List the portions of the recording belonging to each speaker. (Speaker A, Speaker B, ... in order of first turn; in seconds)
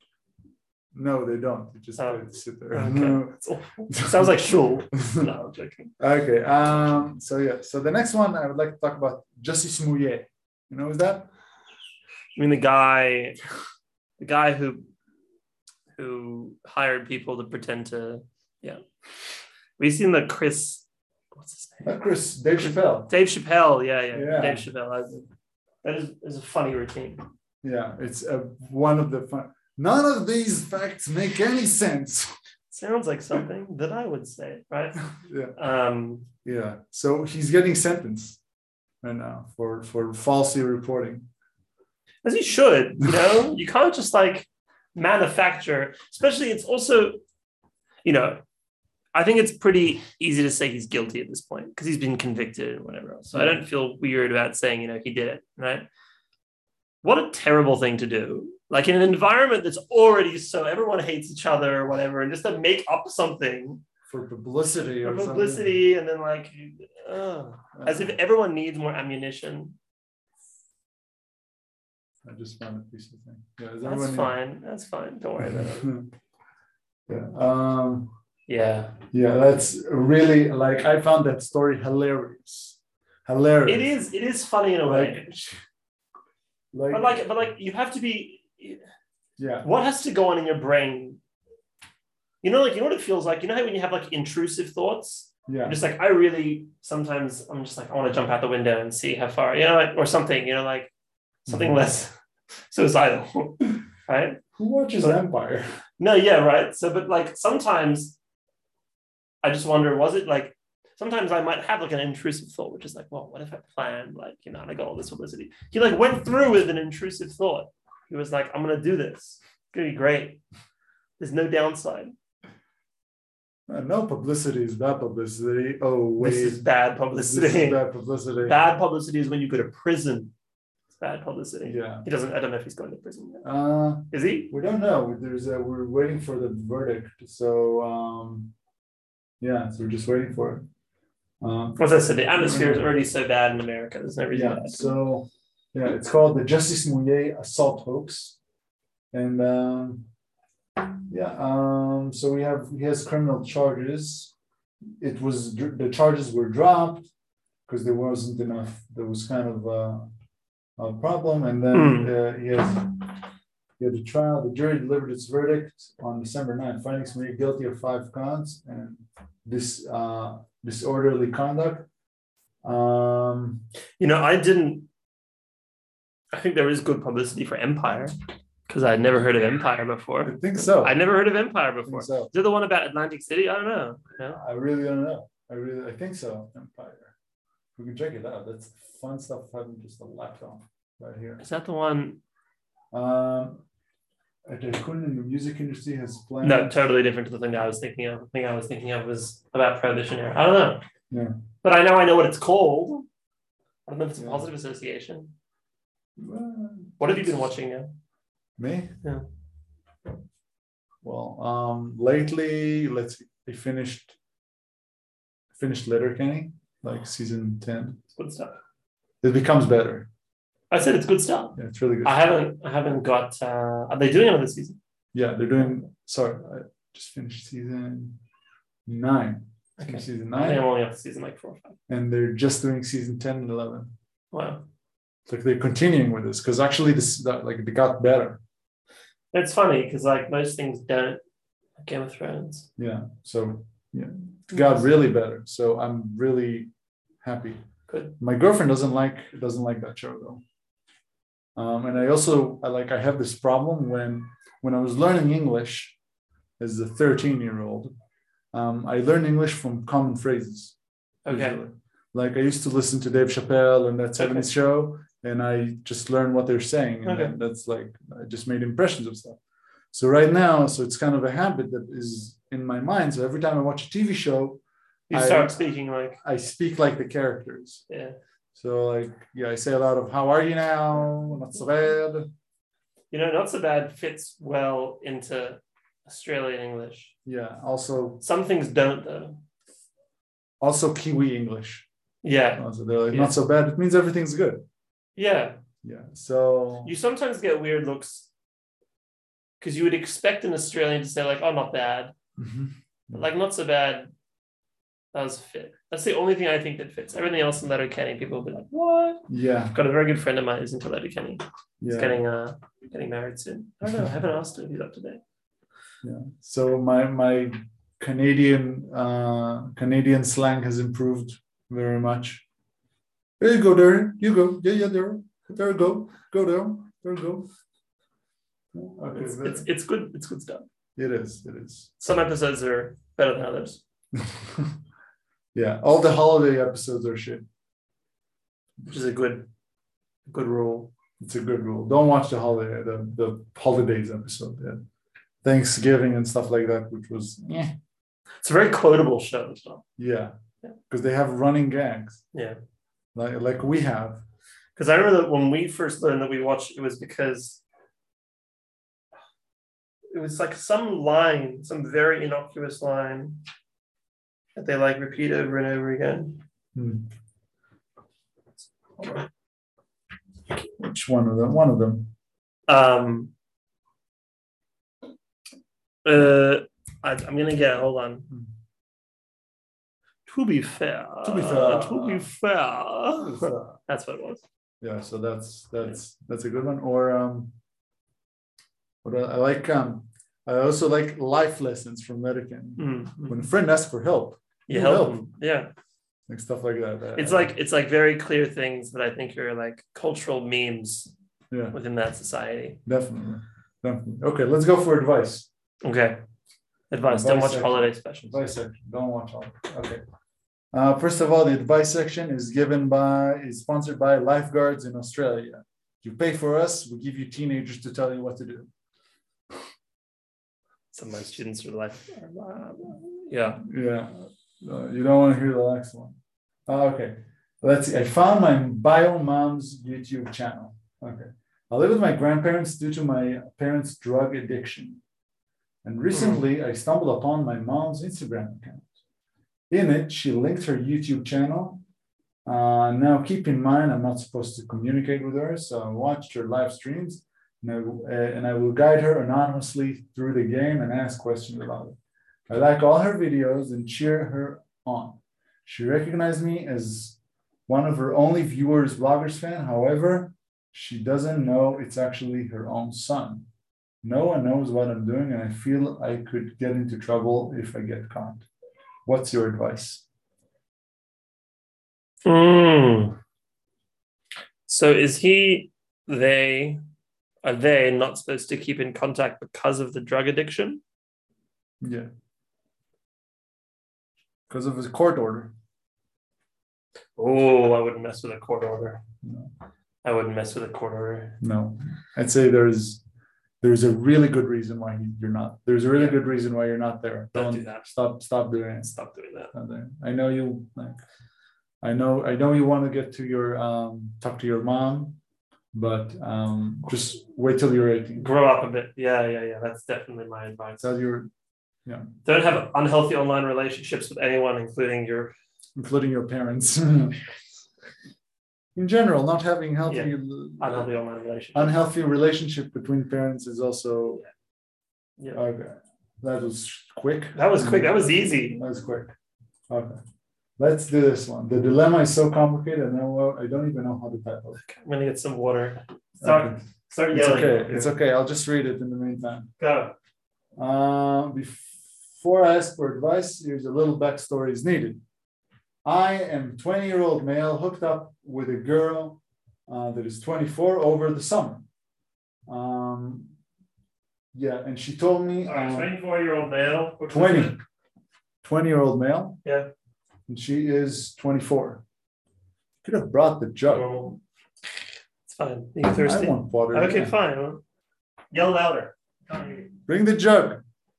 Speaker A: 0.9-3.4, 3.9-4.3, 6.0-11.3, 21.8-23.1, 24.1-24.6, 27.6-32.3, 35.1-35.5, 36.4-38.4, 39.0-41.3, 53.3-53.6, 64.1-65.8, 67.8-68.1, 72.2-74.3, 75.4-76.1, 77.1-78.1, 79.1-83.9, 84.8-85.6, 86.7-87.2, 89.4-89.7, 95.5-95.8, 101.5-101.8, 104.5-105.7, 123.7-128.6, 131.6-132.1, 133.4-138.5, 139.4-140.6, 141.4-141.8, 142.3-142.9, 144.3-148.4, 149.1-150.1, 151.1-154.3, 155.0-157.1, 157.7-160.1, 160.8-163.1, 163.8-171.9, 172.6-173.6, 180.2-181.0, 181.8-182.3, 184.3-187.1, 187.8-191.4, 192.9-193.6, 194.4-196.8, 204.2-204.5, 206.2-207.1, 208.6-209.0, 211.0-214.2, 215.5-218.0, 219.2-220.1, 221.6-222.2, 225.1-228.2, 228.8-230.7, 231.9-233.9, 235.3-238.4, 242.8-246.7, 247.2-247.6, 248.2-250.4, 251.6-255.9, 256.6-257.9, 258.5-260.7, 261.3-269.4, 269.9-275.6, 276.2-277.8, 278.5-282.3, 287.2-288.2, 290.6-291.9, 292.6-294.6, 295.8-296.9, 302.4-303.2, 309.3-309.7, 311.8-312.2, 316.0-322.4, 323.4-327.5, 328.7-329.7, 330.9-331.9, 334.1-334.7, 335.5-337.4, 341.2-344.8, 345.4-347.7, 350.0-350.3, 350.9-352.2, 353.1-354.2, 366.7-367.1, 370.8-372.1, 381.2-382.3, 383.2-383.8, 384.8-387.5, 389.0-395.2, 396.3-397.5, 401.5-401.8, 402.8-405.5, 407.1-410.0, 410.7-418.7, 423.6-435.0, 435.8-438.9, 439.7-441.8, 442.4-451.9, 452.5-457.1, 457.7-463.5, 464.0-468.4, 469.1-470.0, 481.8-482.1, 484.5-485.5, 489.2-489.5, 491.4-493.0, 493.6-498.9, 499.5-501.0, 501.8-505.2, 505.7-508.3, 510.8-511.3, 515.8-517.2, 518.8-520.9, 521.5-524.2, 525.3-529.1, 529.7-530.0, 530.6-534.6, 536.2-536.6, 537.1-539.5, 540.6-545.0, 545.8-551.6, 552.5-553.3, 554.3-555.9, 557.1-557.5, 558.4-559.4, 560.3-561.8, 562.8-564.0, 566.0-567.1, 569.9-570.6
Speaker B: 2.0-5.9, 12.3-13.4, 14.2-14.9, 15.9-18.8, 19.8-21.9, 22.6-25.2, 25.8-27.2, 32.7-36.3, 42.2-47.2, 48.0-48.4, 49.1-55.9, 57.0-63.8, 65.0-69.8, 73.8-76.0, 78.5-79.0, 83.7-85.2, 86.9-88.8, 89.6-91.2, 92.4-100.9, 101.4-102.1, 102.7-104.4, 106.0-108.2, 109.4-120.4, 121.2-122.1, 126.2-127.8, 128.4-130.3, 130.9-133.5, 134.1-134.5, 141.8-145.0, 161.7-162.1, 174.0-174.9, 176.3-178.1, 178.7-184.4, 191.4-192.2, 196.4-200.8, 201.6-203.1, 203.9-205.3, 207.0-207.9, 218.1-218.6, 220.7-224.8, 229.8-231.8, 234.3-234.7, 239.3-241.2, 241.8-242.7, 247.9-248.2, 261.2-261.6, 264.2-264.5, 267.0-267.3, 275.1-276.2, 277.9-278.1, 283.1-287.1, 288.2-289.4, 292.2-293.3, 295.2-295.6, 296.8-298.3, 299.6-302.1, 303.1-304.1, 305.1-315.2, 329.1-330.6, 332.0-333.8, 338.9-339.5, 340.3-340.9, 348.4-349.8, 352.3-352.6, 354.8-357.6, 360.1-363.4, 364.6-366.4, 369.0-369.3, 372.7-373.3, 376.0-378.3, 380.3-384.4, 392.8-393.5, 394.7-395.7, 397.1-401.1, 401.7-402.8, 405.8-406.2, 406.9-408.5, 420.9-423.6, 436.1-436.4, 472.2-473.2, 474.7-476.8, 477.4-480.8, 487.2-489.0, 490.0-491.4, 497.3-497.9, 498.9-499.5, 508.2-510.9, 512.2-515.3, 519.9-521.8, 527.3-528.6, 534.6-537.9, 539.6-539.9, 555.4-557.6, 559.4-559.7, 563.7-564.2, 565.3-567.6, 568.3-569.8